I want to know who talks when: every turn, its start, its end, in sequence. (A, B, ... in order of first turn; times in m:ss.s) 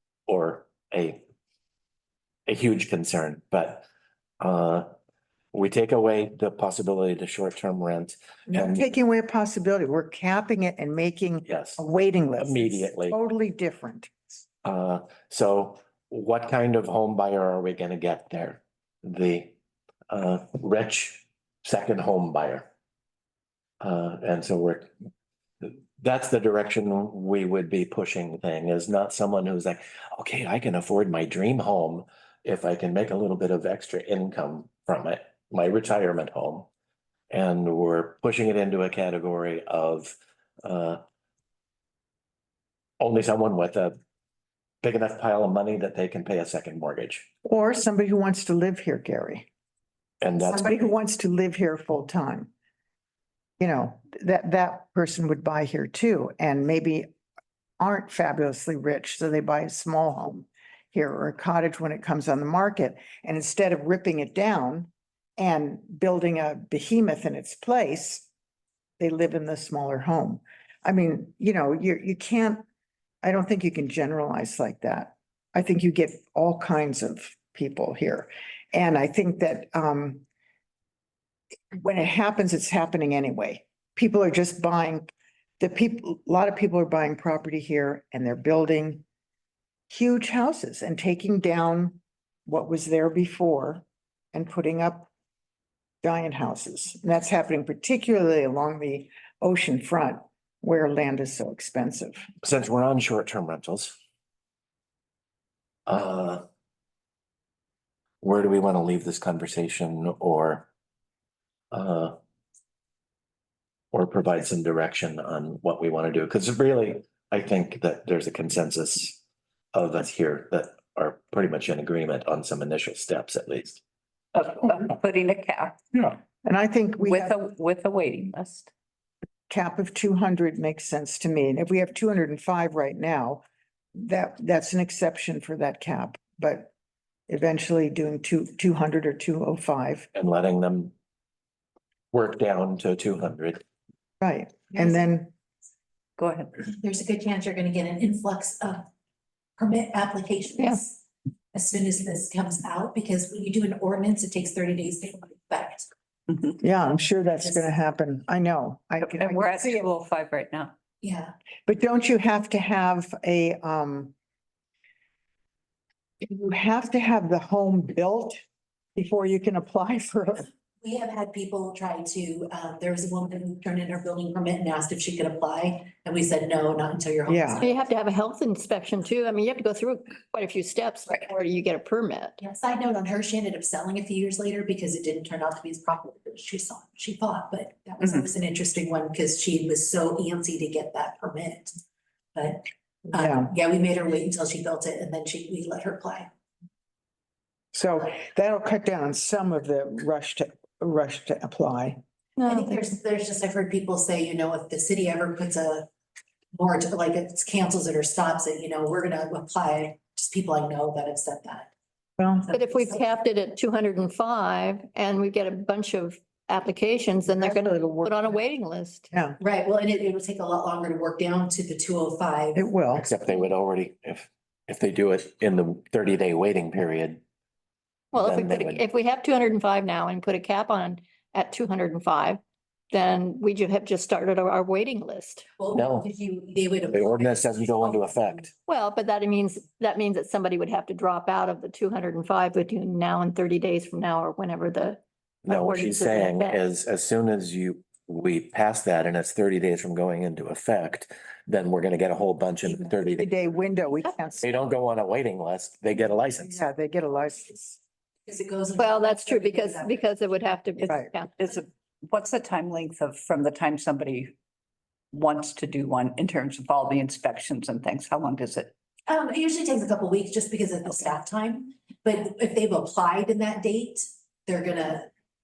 0:00.3-0:01.2 A
0:02.5-0:03.9 A
0:04.4-0:04.9 A
0:05.5-0:08.9 A
0:08.5-0:14.4 B
0:11.5-0:11.8 A
0:12.4-0:13.2 A
0:14.6-0:19.5 A
0:20.1-0:22.7 A
0:23.8-0:24.9 A
0:25.6-0:36.7 A
0:37.3-0:41.0 A
0:43.0-0:44.0 A
0:44.8-0:47.3 A
0:47.4-0:49.5 B
0:50.2-0:50.8 A
0:50.4-0:52.5 B
0:53.6-0:57.1 B
0:57.8-1:08.3 B
1:09.0-1:12.6 B
1:13.2-1:20.2 B
1:21.8-1:29.0 B
1:29.9-1:35.1 B
1:36.0-1:42.3 B
1:42.4-1:44.0 A
1:45.9-1:46.4 A
1:48.2-1:50.7 A
1:51.7-1:52.2 A
1:53.9-1:59.2 A
1:59.7-2:03.8 A
2:04.3-2:06.2 C
2:06.4-2:07.4 B
2:07.0-2:08.7 C
2:09.5-2:16.7 B
2:17.3-2:20.1 B
2:20.1-2:20.9 A
2:22.1-2:23.6 A
2:24.2-2:25.3 B
2:26.2-2:26.7 C
2:26.7-2:28.8 D
2:29.6-2:31.0 D
2:31.5-2:35.9 D
2:36.6-2:39.9 B
2:39.0-2:40.7 C
2:41.0-2:41.3 D
2:41.7-2:44.1 B
2:46.2-2:48.4 B
2:49.0-2:50.5 B
2:50.8-2:57.8 D
2:57.3-2:57.6 B
2:57.6-3:02.4 E
3:02.4-3:11.8 D
3:12.4-3:16.3 D
3:13.1-3:13.5 B
3:17.7-3:22.0 B
3:22.4-3:22.8 E
3:22.5-3:25.9 D
3:26.5-3:31.7 D
3:32.2-3:32.5 B
3:32.4-3:33.0 D
3:32.5-3:39.1 E
3:37.3-3:38.4 B
3:39.1-3:39.4 B
3:39.4-3:42.7 D
3:42.6-3:43.1 B
3:43.0-3:47.2 A
3:48.1-3:52.4 E
3:48.2-3:48.8 A
3:52.9-3:55.5 E
3:55.6-3:58.5 D
3:55.8-3:56.1 A
3:56.9-3:58.5 A
3:58.7-4:06.6 E
4:05.4-4:13.3 A
4:13.2-4:14.5 B
4:14.4-4:16.6 A
4:16.5-4:17.8 B
4:18.3-4:20.0 D
4:18.8-4:21.3 E
4:20.8-4:24.3 C
4:20.9-4:21.1 B
4:25.1-4:28.7 C
4:29.1-4:35.1 D